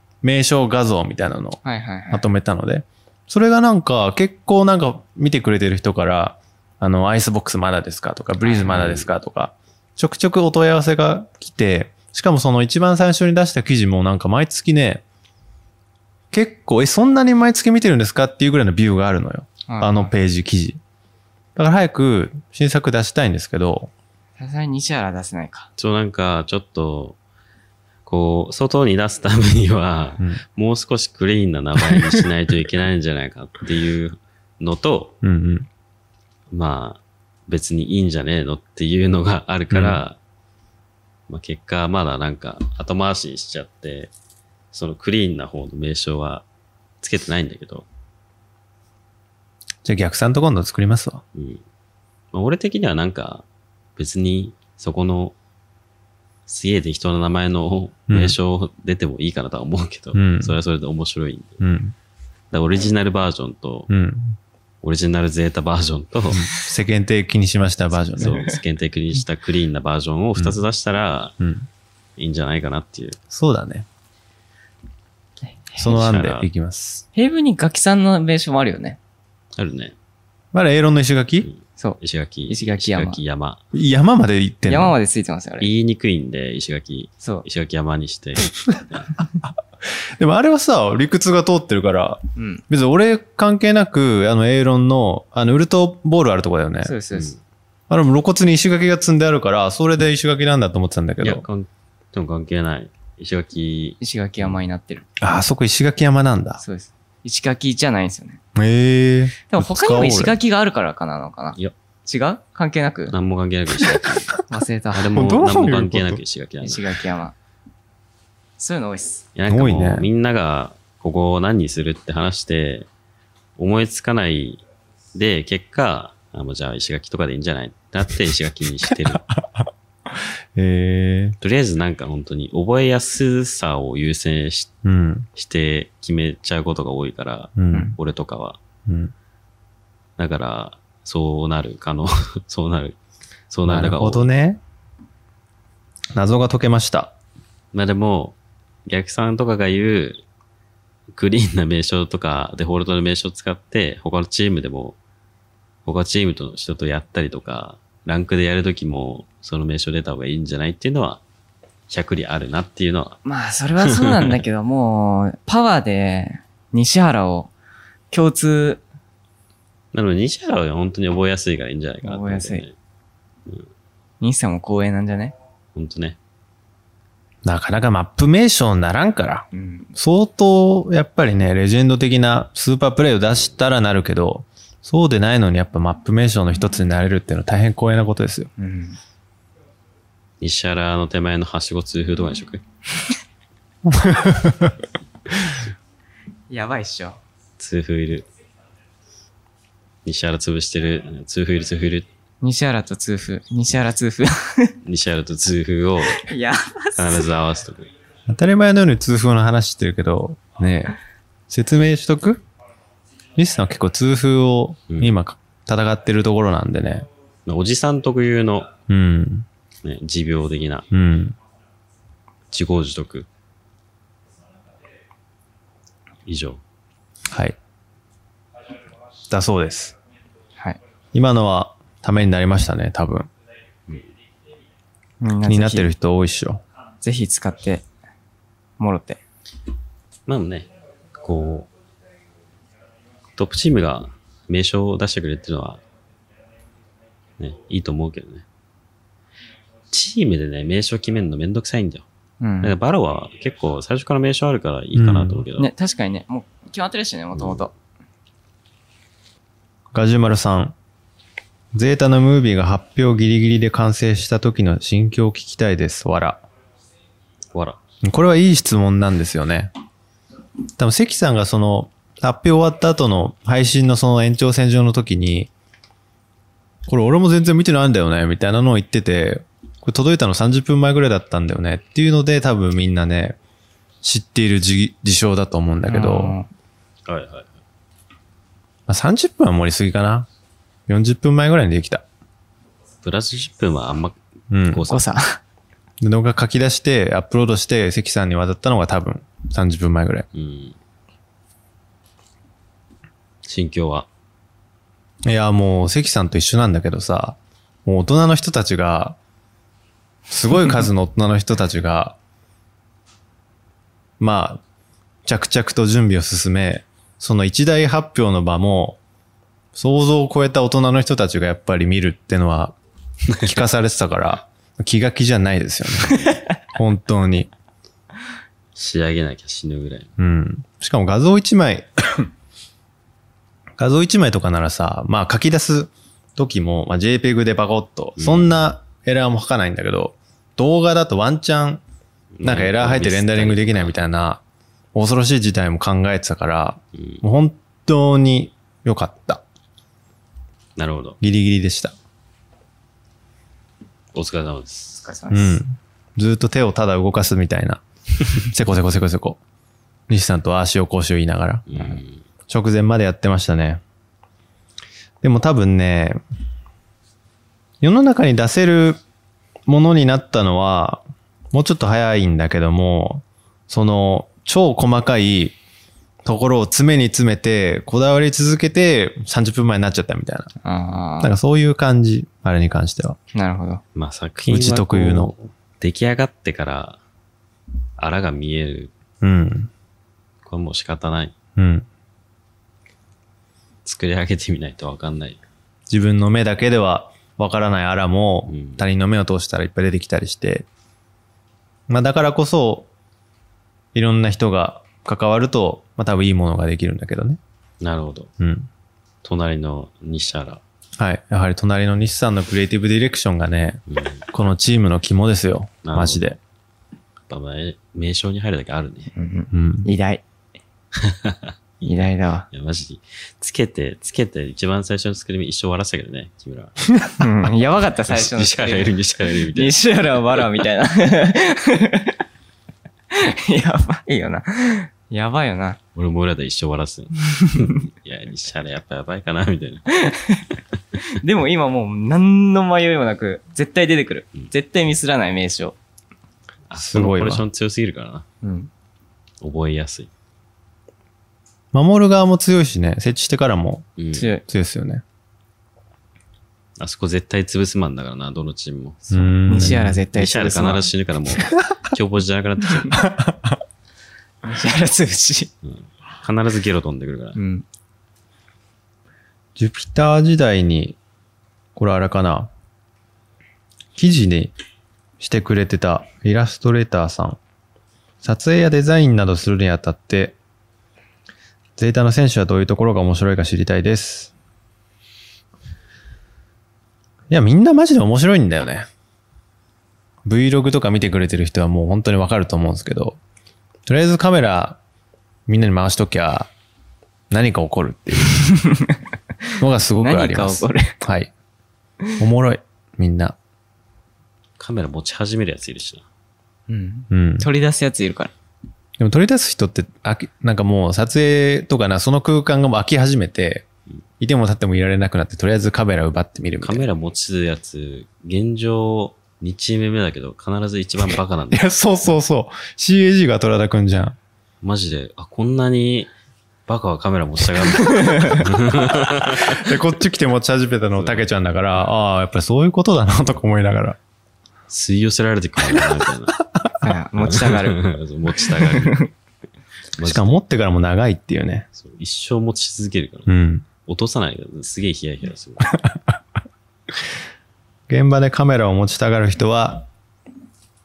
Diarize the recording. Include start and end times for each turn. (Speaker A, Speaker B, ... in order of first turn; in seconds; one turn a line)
Speaker A: 0.2-15.0
Speaker B: 1.6-2.2
Speaker B: 8.4-8.7
Speaker C: 8.6-9.1
Speaker A: 16.3-20.8
Speaker B: 19.7-20.1
Speaker A: 21.6-23.9
Speaker B: 24.4-25.7
Speaker C: 25.8-27.2
Speaker C: 28.1-35.1
Speaker A: 35.2-35.7
Speaker C: 36.5-40.2
Speaker A: 39.7-40.0
Speaker C: 41.3-44.1
Speaker C: 44.7-46.4
Speaker C: 47.0-47.9
Speaker A: 49.8-51.2
Speaker C: 51.3-51.6
Speaker C: 52.3-53.4
Speaker C: 54.0-55.4
Speaker C: 56.5-61.6
Speaker A: 58.1-58.4
Speaker A: 60.1-60.6
Speaker A: 61.6-61.9
Speaker C: 62.5-63.9
Speaker A: 63.9-64.4
Speaker C: 64.8-66.5
Speaker A: 66.3-68.4
Speaker C: 68.2-71.3
Speaker B: 68.2-68.5
Speaker A: 71.4-71.7
Speaker C: 72.2-73.2
Speaker A: 73.3-73.8
Speaker B: 75.5-75.9
Speaker A: 75.8-77.0
Speaker C: 75.8-76.5
Speaker B: 77.1-79.0
Speaker C: 79.6-79.9
Speaker A: 80.5-81.5
Speaker C: 81.4-83.6
Speaker B: 81.8-83.2
Speaker A: 83.7-84.9
Speaker B: 84.7-85.7
Speaker C: 85.6-89.1
Speaker A: 88.7-96.9
Speaker B: 92.3-92.6
Speaker B: 96.8-97.3
Speaker C: 97.1-97.4
Speaker A: 97.9-101.4
Speaker C: 101.2-104.5
Speaker B: 104.0-105.0
Speaker A: 105.2-106.6
Speaker B: 106.6-108.4
Speaker A: 108.5-110.3
Speaker B: 109.5-113.1
Speaker C: 113.1-114.4
Speaker B: 114.5-115.2
Speaker C: 114.9-117.0
Speaker A: 115.1-116.2
Speaker B: 116.6-117.3
Speaker B: 118.6-119.2
Speaker C: 119.3-122.9
Speaker A: 119.5-120.1
Speaker C: 123.6-124.6
Speaker C: 125.1-129.2
Speaker A: 128.9-131.3
Speaker C: 131.4-134.7
Speaker A: 134.8-135.3
Speaker C: 135.3-138.6
Speaker A: 137.6-137.9
Speaker A: 138.9-139.1
Speaker C: 140.2-143.0
Speaker C: 143.5-144.3
Speaker A: 143.7-144.6
Speaker A: 146.1-147.1
Speaker C: 147.7-150.2
Speaker C: 151.1-155.0
Speaker C: 155.8-161.2
Speaker C: 161.9-163.2
Speaker B: 163.2-167.5
Speaker C: 163.8-164.4
Speaker B: 168.1-168.8
Speaker C: 169.9-172.7
Speaker B: 172.0-172.6
Speaker B: 174.2-175.3
Speaker C: 175.7-176.2
Speaker A: 177.4-188.5
Speaker B: 179.5-179.9
Speaker B: 188.6-189.0
Speaker C: 190.4-192.6
Speaker A: 193.8-194.7
Speaker B: 196.5-197.2
Speaker C: 197.6-198.2
Speaker C: 200.0-202.1
Speaker B: 202.4-204.8
Speaker C: 204.8-206.3
Speaker B: 206.1-207.3
Speaker C: 206.9-207.9
Speaker A: 208.3-211.0
Speaker A: 211.5-212.4
Speaker A: 213.3-217.1
Speaker C: 217.4-218.7
Speaker A: 218.9-219.4
Speaker C: 219.8-220.9
Speaker A: 220.9-221.3
Speaker C: 222.5-223.3
Speaker C: 226.2-226.6
Speaker A: 229.3-229.9
Speaker A: 231.1-233.3
Speaker B: 235.2-235.9
Speaker A: 235.5-236.6
Speaker B: 237.0-237.8
Speaker B: 238.8-239.2
Speaker C: 240.3-241.7
Speaker C: 243.4-245.8
Speaker C: 247.4-248.4
Speaker C: 249.9-252.1
Speaker B: 252.4-252.7
Speaker C: 252.6-255.7
Speaker A: 254.9-255.4
Speaker B: 255.6-257.7
Speaker A: 259.9-260.7
Speaker A: 261.7-266.4
Speaker C: 267.5-267.8
Speaker A: 268.0-269.7
Speaker A: 270.8-275.5
Speaker A: 276.9-283.4
Speaker A: 284.0-286.4
Speaker B: 285.9-286.5
Speaker C: 287.1-287.5
Speaker A: 288.9-290.3
Speaker A: 290.9-292.0
Speaker C: 293.0-295.1
Speaker A: 294.5-294.9
Speaker B: 294.9-295.4
Speaker A: 296.0-300.2
Speaker C: 300.3-300.8
Speaker C: 303.4-304.1
Speaker A: 305.2-309.2
Speaker A: 310.3-312.2
Speaker A: 314.2-314.6
Speaker A: 315.2-319.0
Speaker A: 319.7-322.8
Speaker A: 323.4-327.5
Speaker C: 328.7-330.1
Speaker A: 330.2-332.3
Speaker A: 333.8-341.8
Speaker C: 338.2-338.5
Speaker C: 342.4-343.9
Speaker A: 342.4-344.4
Speaker A: 344.9-349.4
Speaker C: 346.9-347.2
Speaker C: 350.8-351.2
Speaker A: 351.2-351.9
Speaker C: 354.1-355.0
Speaker B: 355.0-355.6
Speaker A: 355.3-357.8
Speaker A: 358.4-359.4
Speaker A: 360.1-363.8
Speaker C: 361.7-362.2
Speaker A: 365.2-366.2
Speaker A: 367.8-369.0
Speaker A: 369.6-375.6
Speaker A: 376.2-380.5
Speaker B: 380.6-381.3
Speaker A: 381.2-383.2
Speaker B: 383.3-383.8
Speaker C: 383.9-387.0
Speaker A: 384.4-385.3
Speaker C: 388.0-388.9
Speaker A: 389.2-389.7
Speaker C: 390.4-391.3
Speaker A: 391.6-391.9
Speaker C: 393.8-395.4
Speaker A: 395.9-400.7
Speaker C: 398.5-398.8
Speaker A: 401.9-402.9
Speaker A: 403.9-407.4
Speaker C: 407.8-408.3
Speaker A: 408.4-408.7
Speaker C: 409.2-410.6
Speaker A: 411.0-416.4
Speaker C: 413.9-414.2
Speaker C: 415.8-416.2
Speaker C: 417.3-419.1
Speaker B: 419.1-420.2
Speaker A: 419.5-419.9
Speaker C: 420.9-421.9
Speaker B: 421.8-422.5
Speaker C: 422.5-426.9
Speaker B: 427.2-428.9
Speaker C: 428.1-430.4
Speaker B: 429.5-432.2
Speaker B: 433.1-435.8
Speaker C: 435.9-439.8
Speaker B: 437.3-437.8
Speaker B: 439.9-445.8
Speaker C: 446.7-448.2
Speaker A: 446.7-447.4
Speaker B: 448.4-448.7
Speaker C: 449.4-450.1
Speaker A: 451.7-453.9
Speaker C: 454.0-454.3
Speaker B: 454.1-454.4
Speaker A: 454.4-455.0
Speaker C: 456.8-463.0
Speaker A: 459.1-460.0
Speaker B: 459.5-460.9
Speaker A: 463.0-463.6
Speaker B: 464.4-465.5
Speaker C: 465.6-467.4
Speaker B: 467.4-467.6
Speaker A: 469.6-471.0
Speaker A: 471.7-472.5
Speaker A: 473.9-474.5
Speaker A: 475.2-477.4
Speaker A: 478.2-480.4
Speaker A: 481.8-484.3
Speaker A: 487.3-488.9
Speaker A: 490.2-493.2
Speaker A: 493.9-494.8
Speaker A: 495.5-496.5
Speaker A: 497.3-498.5
Speaker B: 498.3-499.0
Speaker A: 499.6-501.3
Speaker B: 500.0-500.9
Speaker A: 502.2-503.4
Speaker C: 504.6-506.1
Speaker B: 506.7-508.3
Speaker A: 507.1-507.5
Speaker A: 509.0-513.6
Speaker A: 514.2-516.9
Speaker C: 516.6-521.6
Speaker A: 521.5-524.2
Speaker C: 524.6-526.1
Speaker C: 526.7-529.8
Speaker A: 527.7-534.0
Speaker B: 527.9-528.4
Speaker C: 530.9-531.9
Speaker C: 534.7-536.4
Speaker B: 536.8-537.9
Speaker C: 537.2-539.0
Speaker B: 538.5-539.1
Speaker C: 540.0-540.4
Speaker A: 540.0-541.7
Speaker C: 541.8-543.3
Speaker A: 543.3-543.6
Speaker C: 543.9-545.8
Speaker A: 547.9-549.9